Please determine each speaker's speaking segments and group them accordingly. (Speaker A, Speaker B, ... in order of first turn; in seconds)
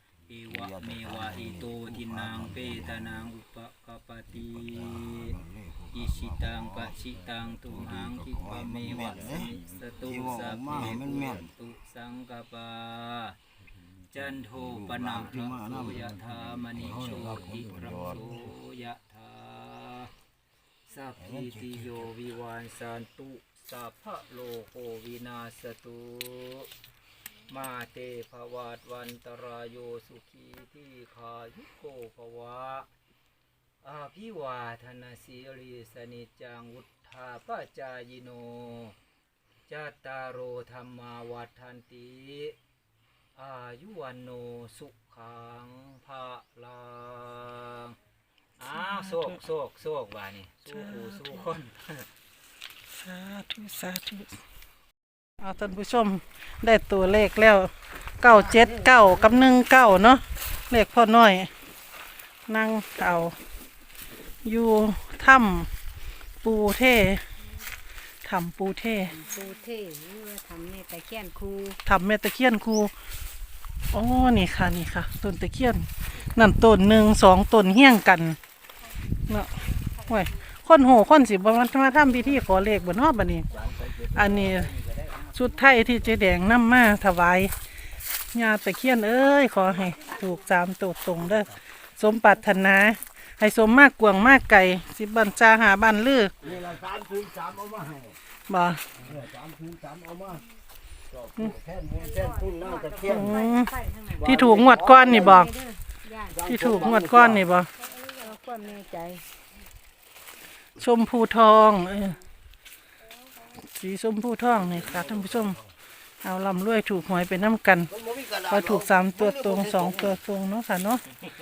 Speaker A: 0.3-5.4, 5.9-20.1, 20.9-26.7, 27.5-32.9, 33.8-39.0, 39.7-42.6, 43.4-48.0, 48.6-52.1, 83.5-85.7
Speaker B: 0.3-3.3, 4.3-11.5, 14.1-18.5, 21.2-22.1, 84.3-84.7, 96.4-98.2, 99.0-100.5, 101.1-103.4, 104.2-105.5, 106.3-107.5, 114.5-115.7, 117.9-120.2
Speaker C: 48.7-49.3, 50.7-51.5, 52.9-54.3, 55.4-61.5, 62.5-63.4, 64.4-65.7, 66.4-67.2, 68.2-69.2, 71.8-72.9, 73.9-78.4, 79.3-83.5, 84.1-84.7, 85.3-87.5, 88.3-96.3, 98.5-98.8, 103.1-105.5, 106.5-107.7, 110.8-112.2, 113.5-115.6, 116.2-117.9, 118.5-121.0
Speaker D: 58.6-59.1, 69.1-71.8, 82.2-82.6, 89.8-90.4, 102.0-104.3, 105.1-106.9, 107.8-109.2